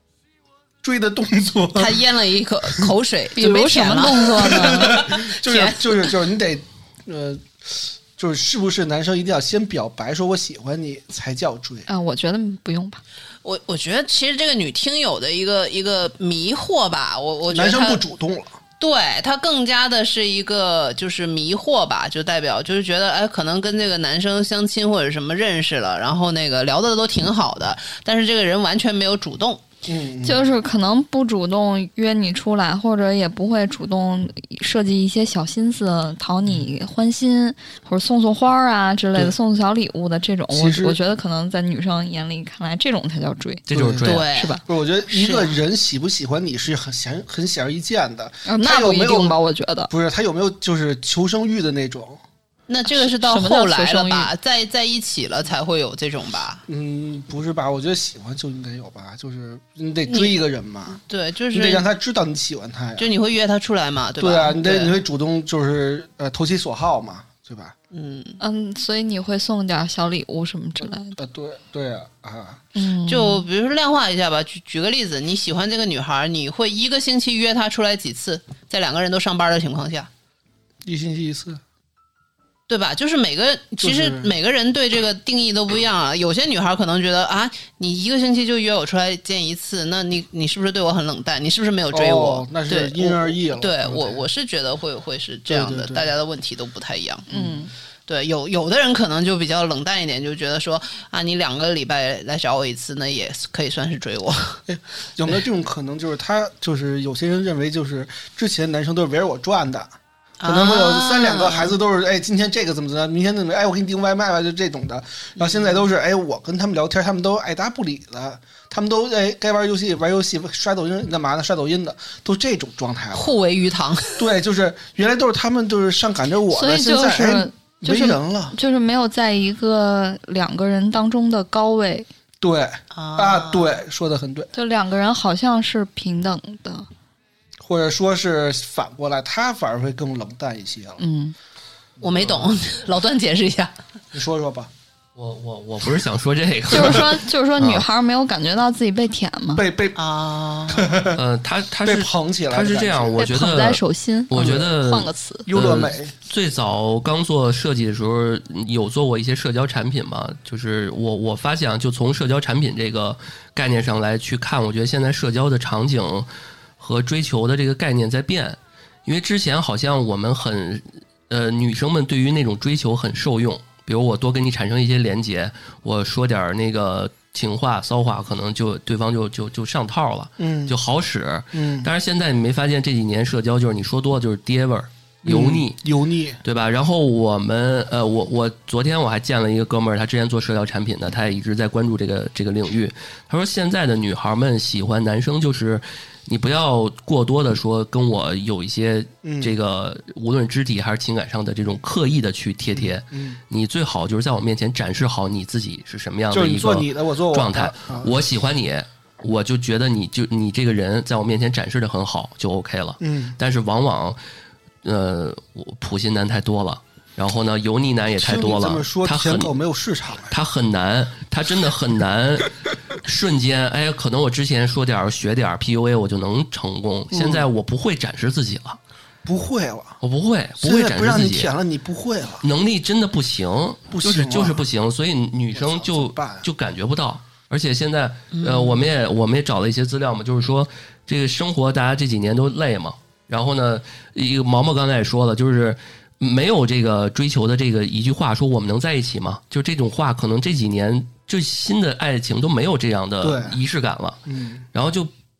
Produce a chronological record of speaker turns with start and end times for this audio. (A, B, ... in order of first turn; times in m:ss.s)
0:00.8-0:02.0 A
0:01.7-0:06.2 B
0:03.4-0:05.0 C
0:04.4-0:11.9 A
0:11.9-0:13.0 C
0:13.4-0:18.0 B
0:17.5-0:18.5 A
0:18.8-0:29.6 B
0:29.8-0:30.4 A
0:30.2-0:43.6 C
0:40.5-0:41.0 A
0:43.7-0:44.3 D
0:43.7-0:44.1 A
0:44.0-0:45.6 B
0:44.3-0:44.6 C
0:44.6-0:49.4 A
0:48.4-0:49.9 C
0:49.9-0:52.2 A
0:52.7-0:56.6 B
0:52.9-0:54.3 C
0:56.7-1:01.0 A
1:00.1-1:00.4 B
1:00.9-1:01.8 B
1:01.5-1:03.1 A
1:03.0-1:05.0 B
1:04.2-1:07.7 A
1:07.9-1:08.4 B
1:08.4-1:11.2 C
1:11.2-1:12.6 A
1:12.7-1:13.4 C
1:13.1-1:20.1 B
1:20.8-1:21.6 A
1:22.7-1:37.3 B
1:23.8-1:24.3 A
1:31.9-1:34.2 A
1:35.5-1:36.1 A
1:37.3-1:37.7 C
1:37.3-1:37.6 A
1:38.1-1:44.6 B
1:44.7-1:49.9 A
1:50.4-1:51.8 B
1:50.4-2:03.3 A
1:55.4-1:55.8 B
2:03.1-2:04.2 B
2:04.2-2:08.5 A
2:06.5-2:12.1 C
2:12.4-2:14.5 A
2:12.9-2:13.8 B
2:14.5-2:16.9 C
2:17.6-2:21.0 A
2:21.0-2:21.3 C
2:22.0-2:22.5 A
2:22.0-2:23.7 B
2:24.1-2:24.7 A
2:25.2-2:27.8 D
2:26.7-2:29.6 C
2:29.5-2:30.0 A
2:30.0-2:30.9 B
2:30.7-2:31.2 A
2:31.1-3:05.8 D
2:31.8-2:33.3 A
2:33.2-2:35.5 C
2:34.3-2:34.7 A
2:35.5-2:36.1 A
3:00.4-3:00.8 A
3:01.5-3:01.9 A
3:05.2-3:06.4 A
3:06.4-3:34.2 D
3:19.2-3:19.5 A
3:22.7-3:23.4 A
3:26.3-3:28.1 A
3:33.0-3:33.4 A
3:34.8-3:39.5 D
3:38.2-3:40.3 A
3:40.3-3:48.8 D
3:47.1-3:47.5 A
3:49.2-3:50.0 A
3:50.0-3:51.5 D
3:50.6-3:52.4 A
3:52.4-4:14.2 D
3:53.9-3:54.6 A
3:55.5-3:56.4 A
3:58.3-3:58.9 B
4:13.2-4:13.6 A
4:14.3-4:14.6 A
4:14.7-4:15.1 D